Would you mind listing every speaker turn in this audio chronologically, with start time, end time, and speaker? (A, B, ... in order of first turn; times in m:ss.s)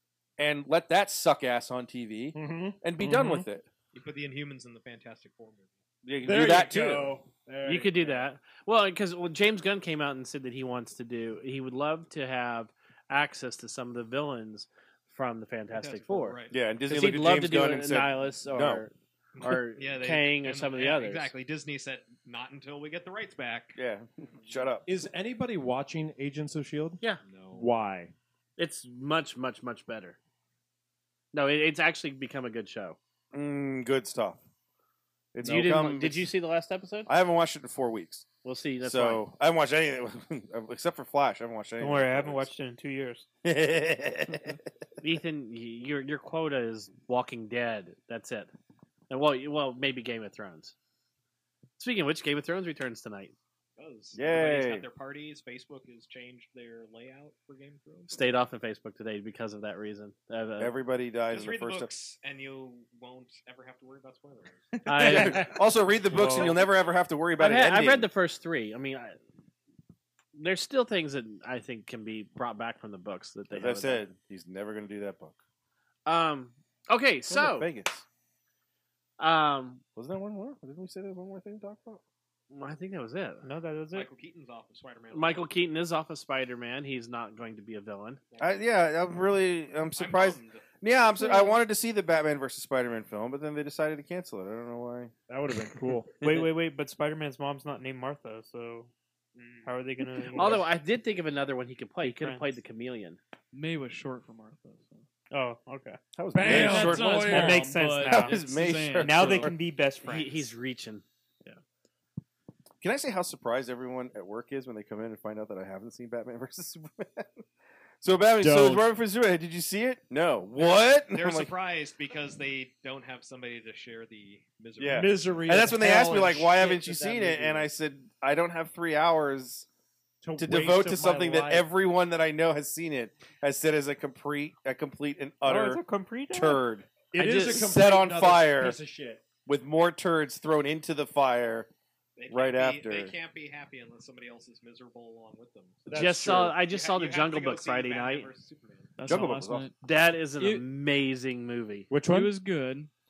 0:00.4-0:03.6 A
0:02.3-0:03.4 B
0:03.9-0:05.7 C
0:06.0-0:07.1 A
0:06.2-0:08.2 B
0:07.6-0:16.4 D
0:15.7-0:16.5 C
0:16.5-0:18.8 A
0:16.9-0:21.3 D
0:19.4-0:23.8 C
0:23.7-0:24.8 A
0:24.8-0:27.0 B
0:27.2-0:27.7 C
0:27.5-0:28.1 B
0:28.6-0:30.2 D
0:31.3-0:33.0 D
0:33.3-0:34.4 A
0:35.3-0:36.3 A
0:35.4-0:37.1 D
0:37.1-0:38.3 A
0:38.4-0:39.2 D
0:38.8-0:42.5 A
0:41.8-0:43.2 E
0:43.4-0:44.6 A
0:45.0-0:48.5 D
0:49.1-0:50.7 D
0:51.8-0:53.3 D
0:53.8-0:58.1 C
0:54.1-0:54.8 A
0:58.1-1:00.7 D
1:00.6-1:01.9 A
1:01.3-1:04.7 C
1:04.8-1:05.5 D
1:04.9-1:05.6 B
1:05.0-1:08.1 A
1:06.1-1:06.9 C
1:07.4-1:09.2 D
1:10.3-1:14.0 D
1:13.5-1:15.4 A
1:16.0-1:17.7 D
1:17.3-1:18.0 A
1:19.2-1:19.8 D
1:20.0-1:22.0 A
1:22.5-1:23.4 D
1:23.4-1:24.1 E
1:23.9-1:25.5 C
1:25.1-1:28.2 D
1:28.3-1:28.6 C
1:28.4-1:35.1 A
1:29.9-1:30.6 C
1:35.3-1:36.1 B
1:36.2-1:38.9 E
1:39.4-1:39.7 C
1:39.6-1:40.7 E
1:40.3-1:43.2 D
1:42.0-1:42.5 E
1:43.5-1:45.1 F
1:45.3-1:46.0 E
1:46.1-1:49.5 A
1:46.3-1:47.6 B
1:46.4-1:49.5 F
1:47.2-1:48.4 E
1:49.0-1:50.5 E
1:50.0-1:51.0 D
1:52.8-1:57.4 A
1:58.0-2:01.5 A
1:58.4-1:58.8 B
2:00.6-2:05.6 C
2:04.8-2:09.6 A
2:04.9-2:07.7 B
2:10.2-2:11.7 B
2:10.4-2:18.8 A
2:15.4-2:16.6 E
2:17.1-2:19.2 B
2:19.4-2:21.7 A
2:22.2-2:28.9 C
2:22.3-2:23.1 A
2:25.9-2:26.5 B
2:25.9-2:28.3 D
2:29.0-2:29.7 F
2:29.0-2:29.7 A
2:29.8-2:31.9 D
2:30.3-2:30.6 F
2:31.9-2:32.3 B
2:32.0-2:32.9 F